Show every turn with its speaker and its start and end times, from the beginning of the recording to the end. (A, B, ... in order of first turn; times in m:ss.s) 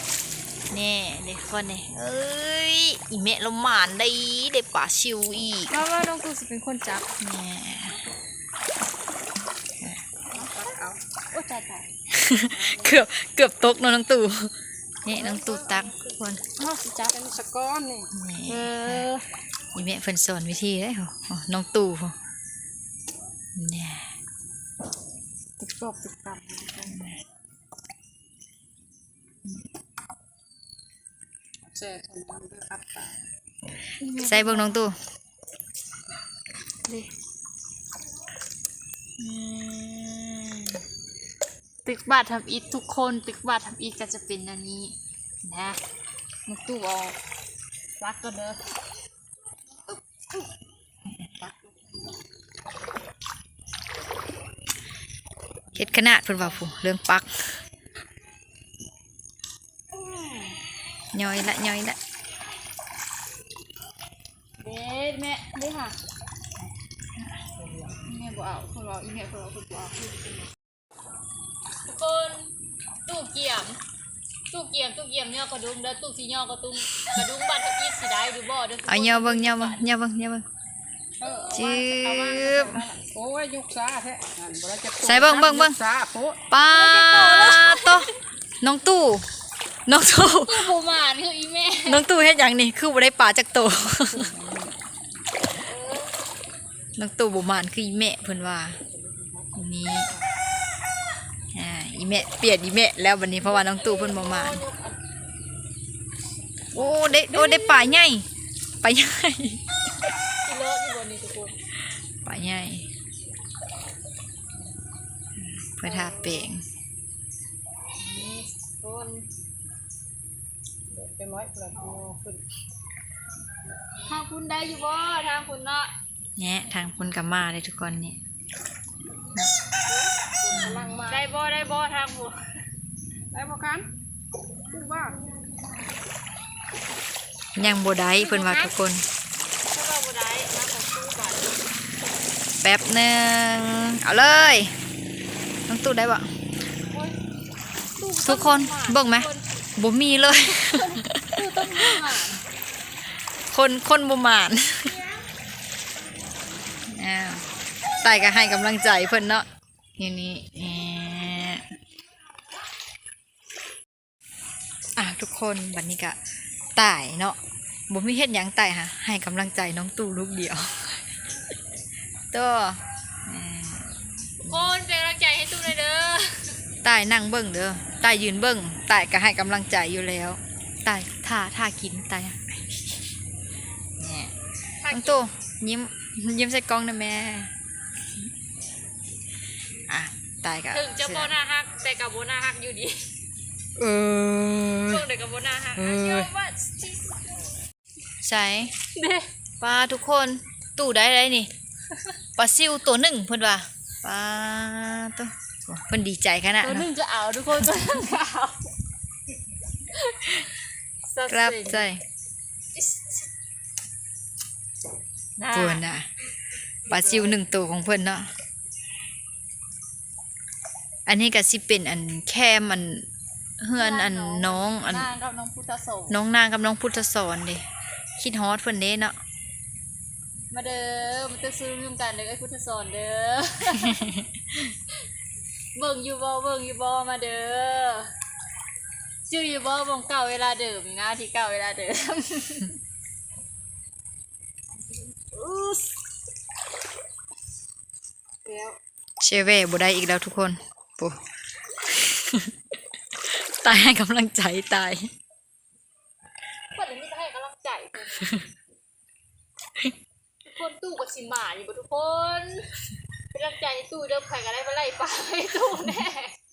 0:00.7-0:05.8 A
0:05.7-0:07.1 B
0:07.2-0:08.0 A
0:10.4-0:11.0 C
0:11.3-0:11.9 B
0:12.1-0:14.5 A
0:12.6-0:12.9 C
0:15.0-0:16.4 A
0:15.1-0:15.9 C
0:16.6-0:17.2 B
0:17.1-0:18.1 C
0:18.1-0:19.1 A
0:18.5-0:19.2 B
0:19.7-0:22.2 A
0:23.6-0:24.2 A
0:25.6-0:27.0 B
0:26.8-0:27.2 A
0:31.7-0:33.2 C
0:34.0-0:34.8 B
0:34.2-0:35.0 A
0:39.2-0:40.3 A
0:39.3-0:39.8 B
0:41.8-0:45.8 B
0:46.5-0:47.2 B
0:48.0-0:48.6 B
0:55.8-0:57.5 A
1:01.1-1:02.0 A
1:04.6-1:06.0 B
1:08.0-1:10.5 B
1:11.8-1:12.5 B
1:13.1-1:13.8 B
1:14.5-1:19.9 B
1:18.9-1:20.4 A
1:21.2-1:26.4 C
1:21.2-1:21.8 B
1:21.5-1:22.8 A
1:25.0-1:25.8 A
1:26.5-1:28.1 A
1:26.7-1:28.2 B
1:28.6-1:29.3 A
1:29.9-1:30.7 A
1:30.4-1:32.0 B
1:31.9-1:34.4 A
1:35.5-1:36.1 B
1:37.0-1:38.8 A
1:39.6-1:40.1 A
1:41.5-1:44.6 A
1:43.4-1:45.0 B
1:46.7-1:48.3 A
1:47.3-1:48.0 B
1:48.8-1:49.6 A
1:50.4-1:51.5 B
1:52.2-1:52.9 A
1:55.4-1:56.6 A
1:55.8-1:56.5 B
1:58.0-1:59.3 B
2:00.9-2:02.4 C
2:04.1-2:05.9 B
2:06.4-2:08.2 A
2:09.9-2:11.3 C
2:10.5-2:11.0 A
2:11.1-2:12.4 B
2:13.3-2:13.9 C
2:14.7-2:15.2 C
2:17.6-2:19.0 A
2:18.2-2:18.7 C
2:19.7-2:21.6 B
2:22.6-2:24.7 A
2:25.7-2:26.3 A
2:28.0-2:29.4 B
2:28.2-2:32.2 A
2:30.3-2:32.4 B
2:33.5-2:35.0 A
2:36.9-2:37.5 A
2:38.0-2:39.5 A
2:40.0-2:41.7 A
2:45.0-2:46.2 A
2:46.8-2:47.4 A
2:47.9-2:51.1 A
2:52.3-2:54.7 A
2:54.4-2:56.6 B
2:56.8-3:03.0 A
3:04.0-3:04.3 A
3:04.8-3:05.3 B
3:04.9-3:07.5 A
3:09.9-3:11.3 A
3:10.7-3:13.0 B
3:13.8-3:15.1 A
3:14.9-3:17.2 B
3:15.8-3:16.3 A
3:18.2-3:18.7 A
3:18.9-3:19.3 B
3:19.6-3:21.5 A
3:22.4-3:26.9 A
3:26.6-3:28.6 B
3:29.9-3:30.5 B
3:31.1-3:31.9 B
3:31.3-3:32.0 A
3:32.8-3:33.2 B
3:35.4-3:35.8 B
3:35.5-3:36.1 A
3:36.9-3:38.3 A
3:41.1-3:43.1 A
3:43.6-3:45.1 A
3:43.8-3:46.2 B
3:46.1-3:47.6 A
3:48.2-3:49.2 A
3:50.5-3:54.0 B
3:53.8-3:54.2 A
3:55.8-3:58.1 B
3:59.3-4:02.7 B
4:08.5-4:08.8 C
4:09.2-4:11.2 A
4:11.8-4:12.5 A
4:13.2-4:15.1 A
4:16.7-4:18.3 B
4:18.2-4:18.4 A
4:20.4-4:22.8 B
4:23.3-4:26.4 B